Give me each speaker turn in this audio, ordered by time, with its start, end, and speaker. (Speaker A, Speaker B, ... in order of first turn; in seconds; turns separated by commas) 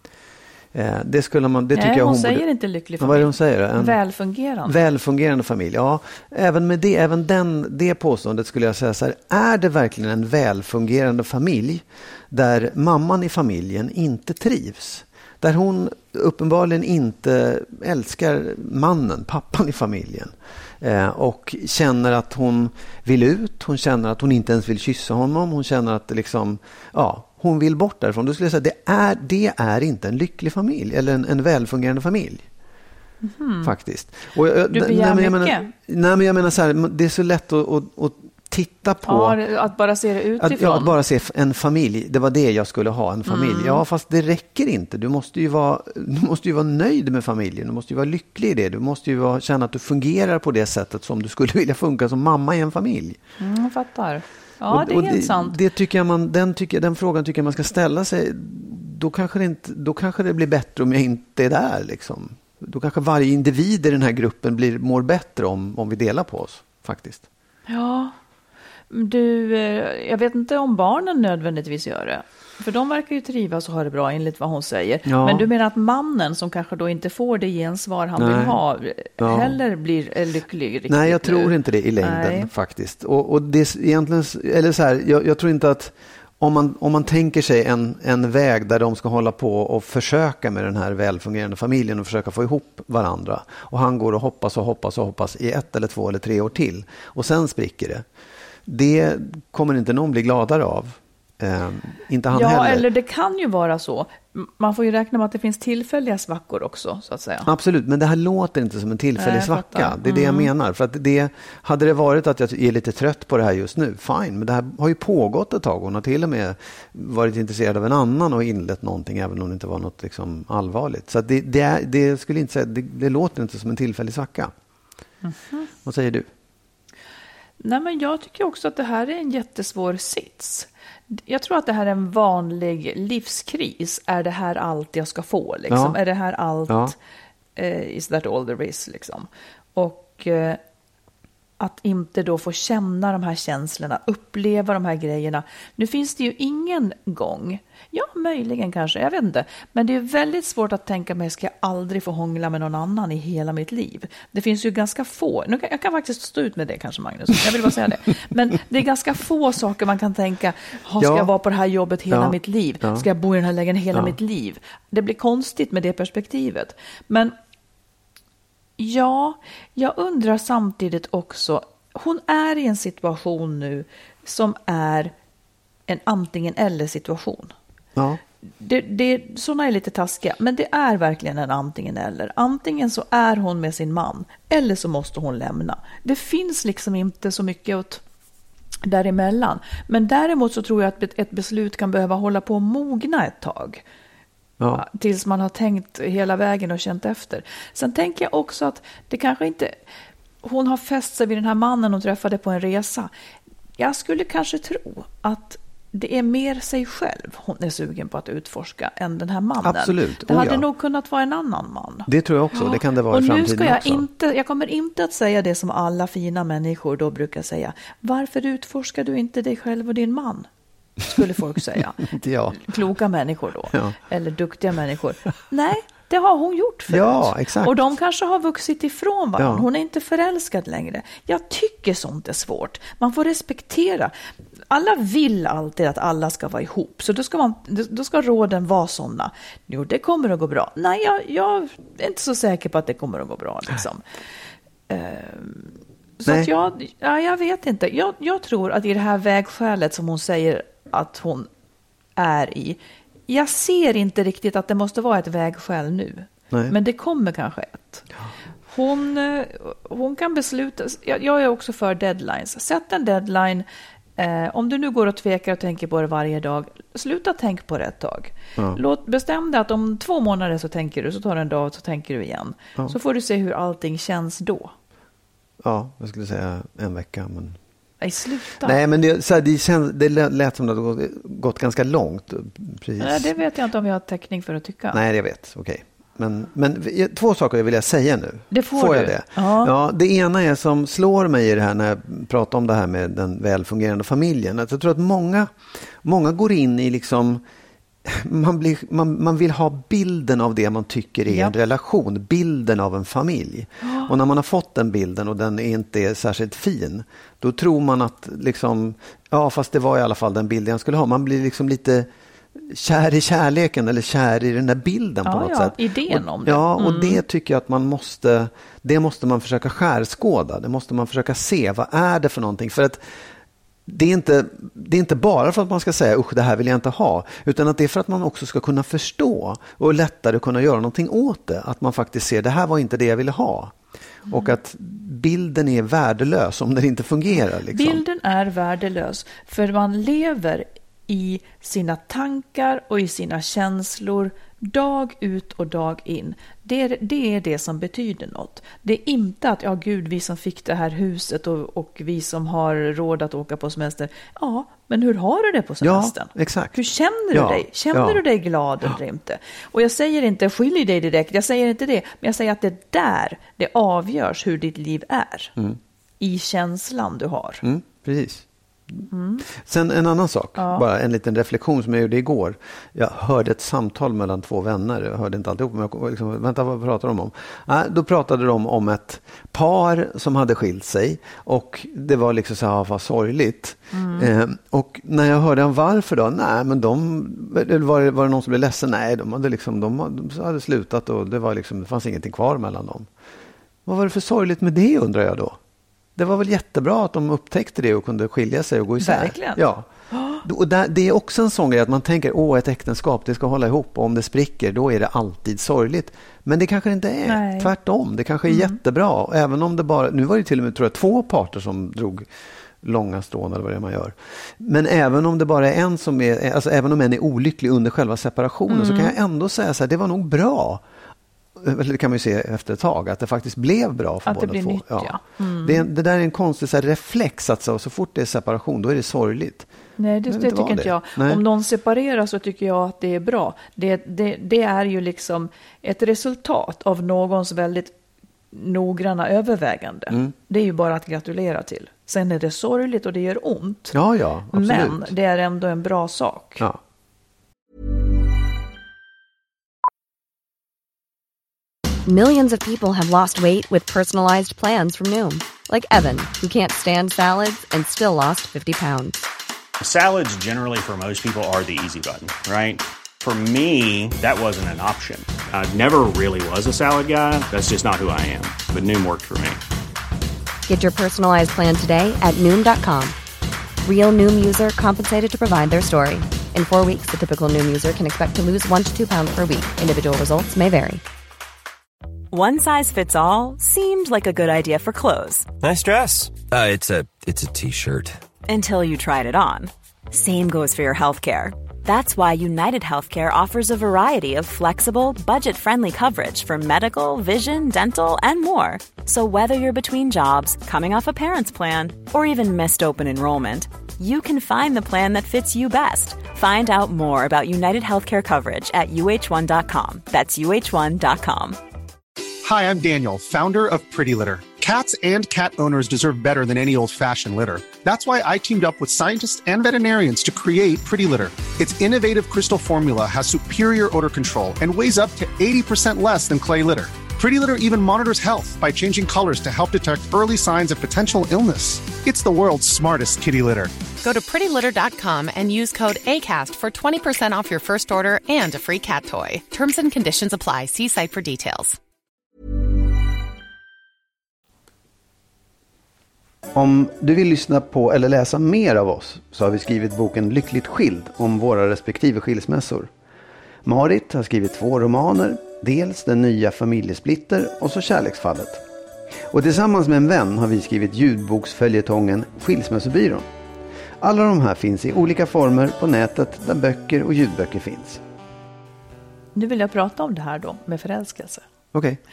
Speaker A: 0.7-2.5, Speaker B: 1.7-4.7, Speaker A: 3.0-4.0, Speaker A: 4.6-32.5, Speaker B: 33.2-33.7, Speaker A: 33.6-39.4, Speaker B: 34.7-35.7, Speaker B: 39.0-40.9, Speaker A: 40.4-53.2, Speaker B: 43.3-43.8, Speaker B: 53.4-55.6, Speaker A: 54.7-67.2, Speaker B: 67.7-68.1, Speaker B: 68.9-82.5, Speaker A: 75.0-75.5, Speaker A: 78.2-78.6, Speaker A: 79.2-79.5, Speaker A: 80.9-98.0, Speaker A: 98.7-102.9, Speaker B: 102.3-107.5, Speaker A: 107.4-124.5, Speaker B: 109.2-110.5, Speaker B: 125.2-125.7, Speaker A: 125.8-126.3, Speaker B: 127.6-136.9, Speaker A: 135.7-136.0, Speaker A: 136.7-136.9, Speaker B: 137.6-140.6, Speaker B: 141.6-167.3, Speaker A: 161.0-161.3, Speaker A: 162.1-163.1, Speaker B: 168.8-175.1, Speaker B: 175.9-177.5, Speaker B: 178.6-188.0, Speaker B: 188.8-193.8, Speaker B: 194.7-199.8, Speaker B: 200.4-203.1, Speaker B: 203.8-220.5, Speaker A: 209.6-210.7, Speaker A: 212.1-214.1, Speaker B: 221.1-234.1, Speaker A: 222.0-222.7, Speaker A: 223.7-224.0, Speaker A: 226.9-227.8, Speaker A: 229.4-229.7, Speaker B: 234.7-244.0, Speaker B: 244.9-251.5, Speaker B: 252.2-258.1, Speaker B: 258.7-263.6, Speaker B: 264.2-274.7, Speaker A: 275.6-277.6, Speaker B: 278.0-278.8, Speaker A: 278.6-283.3, Speaker B: 283.0-285.0, Speaker A: 284.9-297.4, Speaker B: 288.5-289.7, Speaker A: 298.0-323.0, Speaker B: 301.3-301.5, Speaker B: 303.8-304.1, Speaker B: 315.2-317.2, Speaker A: 323.9-333.7, Speaker A: 334.2-338.0, Speaker B: 337.6-365.5, Speaker A: 355.8-356.8, Speaker A: 357.3-358.2, Speaker B: 366.2-367.6, Speaker A: 367.6-393.1, Speaker B: 369.1-369.4, Speaker B: 370.6-370.8, Speaker B: 383.9-384.3, Speaker A: 393.9-395.6, Speaker A: 396.1-399.9, Speaker B: 399.0-400.4, Speaker A: 400.4-412.3, Speaker B: 407.2-407.7, Speaker B: 408.5-408.8, Speaker A: 412.8-420.8, Speaker B: 418.7-419.1, Speaker A: 421.6-429.7, Speaker B: 424.2-425.8, Speaker B: 430.0-437.9, Speaker A: 430.3-431.4, Speaker B: 438.5-443.9, Speaker A: 443.9-445.1, Speaker B: 444.5-446.7, Speaker C: 452.1-459.2, Speaker D: 459.8-469.6, Speaker C: 470.7-473.1, Speaker C: 473.8-481.0, Speaker E: 482.3-485.4, Speaker F: 485.6-488.2, Speaker E: 488.5-511.6, Speaker G: 512.4-533.7, Speaker H: 534.0-541.8, Speaker A: 546.5-552.9, Speaker A: 553.6-558.6, Speaker A: 559.3-563.2, Speaker A: 564.0-568.0, Speaker B: 569.3-571.4, Speaker A: 571.7-572.0